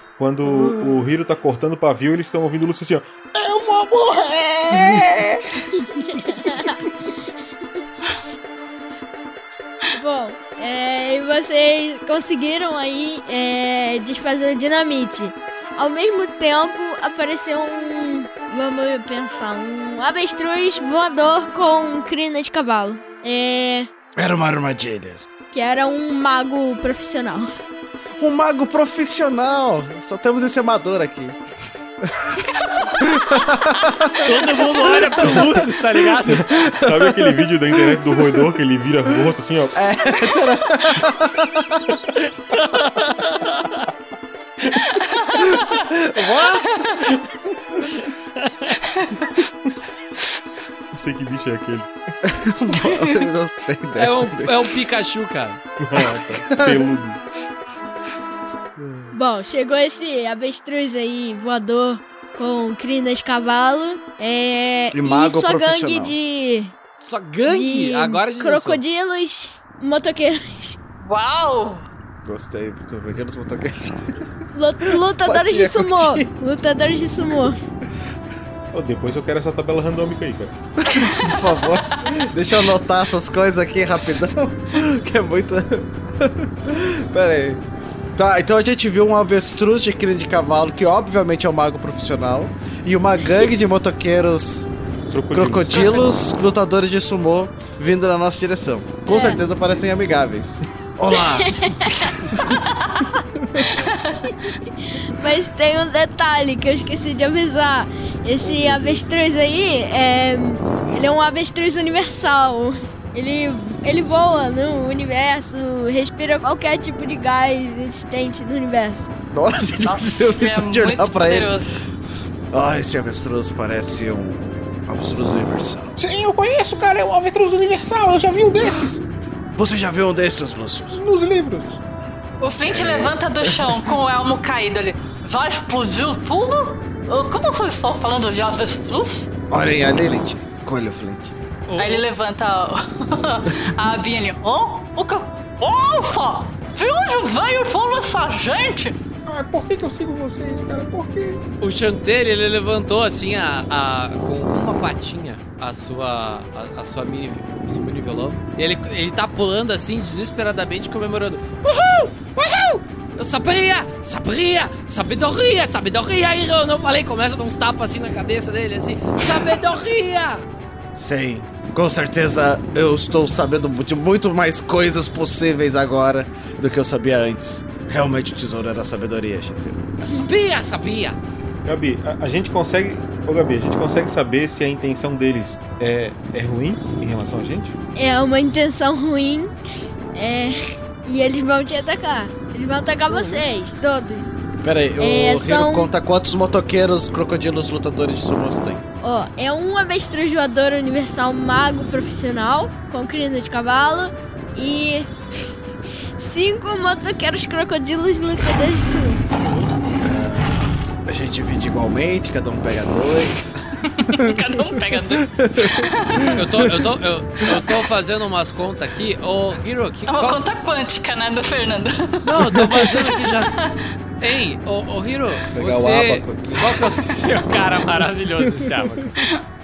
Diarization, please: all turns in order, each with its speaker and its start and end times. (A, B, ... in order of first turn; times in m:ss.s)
0:00.2-0:03.1 A
0:03.3-0:05.4 B
0:05.9-0:06.8 C
0:09.9-0:23.9 C
0:24.2-0:25.2 D
0:25.5-0:27.5 C
0:28.2-0:31.4 D
0:32.0-0:32.3 D
0:33.0-0:35.6 D
0:34.2-0:36.6 E
0:35.2-0:35.6 A
0:36.2-0:39.8 A
0:36.2-0:38.4 D
0:39.7-0:42.0 D
0:42.5-0:43.8 E
0:44.9-0:45.9 F
0:46.0-0:46.4 D
0:46.1-0:46.8 E
0:46.6-0:47.1 F
0:48.4-0:48.7 E
0:50.9-0:51.9 A
0:52.2-0:54.8 D
0:52.7-0:53.2 F
0:53.9-0:55.6 E
0:55.8-0:57.2 A
0:56.3-0:56.8 D
0:58.8-0:59.1 D
0:59.1-1:06.7 C
1:04.9-1:06.2 D
1:07.0-1:08.8 E
1:07.4-1:10.8 C
1:11.0-1:11.8 F
1:12.2-1:14.2 D
1:14.5-1:17.6 C
1:14.8-1:16.3 D
1:18.7-1:20.5 A
1:20.8-1:27.6 D
1:21.0-1:21.5 F
1:28.1-1:34.7 D
1:35.1-1:36.0 A
1:35.3-1:41.7 D
1:39.1-1:39.4 C
1:41.1-1:42.2 C
1:43.8-1:44.3 F
1:44.9-1:59.1 C
1:48.4-1:49.0 D
1:59.3-2:01.5 D
1:59.8-2:01.8 F
2:02.5-2:06.0 D
2:06.0-2:09.0 B
2:09.5-2:11.0 D
2:11.0-2:11.8 B
2:12.4-2:19.3 F
2:12.6-2:13.7 D
2:19.5-2:21.3 D
2:21.7-2:22.1 E
2:21.8-2:29.0 F
2:29.2-2:31.4 B
2:31.6-2:50.5 E
2:50.9-2:59.9 D
3:00.0-3:01.2 E
3:01.6-3:07.7 A
3:08.0-3:09.5 C
3:10.1-3:14.3 C
3:14.6-3:18.8 D
3:15.0-3:15.9 C
3:19.0-3:25.1 C
3:26.2-3:29.2 C
3:30.0-3:33.5 D
3:34.0-3:36.3 F
3:34.1-3:34.4 D
3:35.1-3:36.8 D
3:36.3-3:40.4 E
3:40.1-3:42.3 F
3:42.2-3:43.5 E
3:43.4-3:43.7 F
3:44.2-3:49.2 E
3:45.5-3:47.0 D